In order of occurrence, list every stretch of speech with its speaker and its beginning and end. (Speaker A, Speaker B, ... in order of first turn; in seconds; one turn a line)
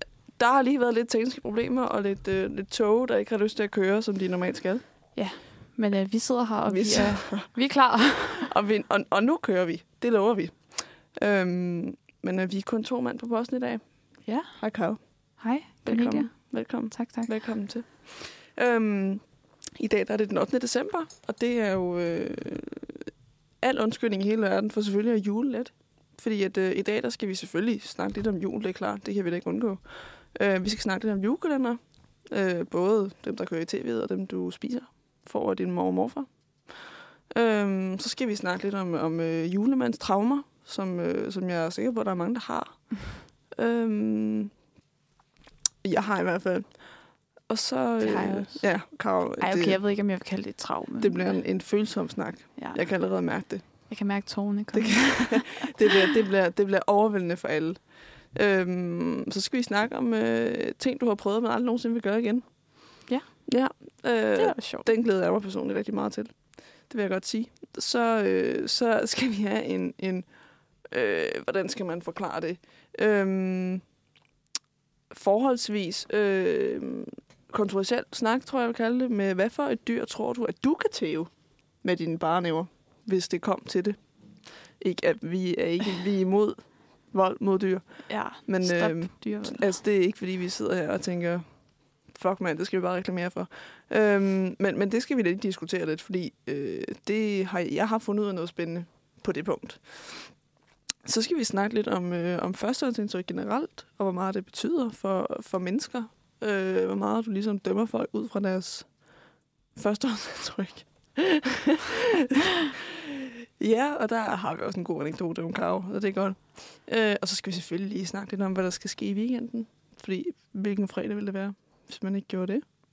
Speaker A: 0.4-4.8
Speaker B: 5.1-8.5
Speaker A: 6.7-7.5
Speaker A: 8.4-13.8
Speaker A: 14.6-15.0
Speaker B: 15.4-16.3
Speaker A: 15.8-19.2
Speaker B: 16.9-17.3
Speaker A: 19.8-23.1
Speaker A: 23.6-36.3
Speaker A: 37.3-42.9
Speaker A: 43.5-44.5
Speaker A: 45.8-46.8
Speaker A: 47.5-49.8
Speaker B: 48.0-48.7
Speaker B: 49.4-51.3
Speaker A: 51.0-53.7
Speaker B: 52.6-52.8
Speaker B: 53.9-56.1
Speaker A: 54.7-62.5
Speaker A: 63.5-66.4
Speaker B: 64.4-64.9
Speaker A: 66.9-70.3
Speaker A: 70.9-73.8
Speaker A: 75.1-81.3
Speaker A: 81.8-84.0
Speaker A: 84.8-87.8
Speaker B: 88.1-89.7
Speaker A: 88.5-91.4
Speaker A: 92.1-100.3
Speaker A: 101.0-108.9
Speaker A: 109.8-122.6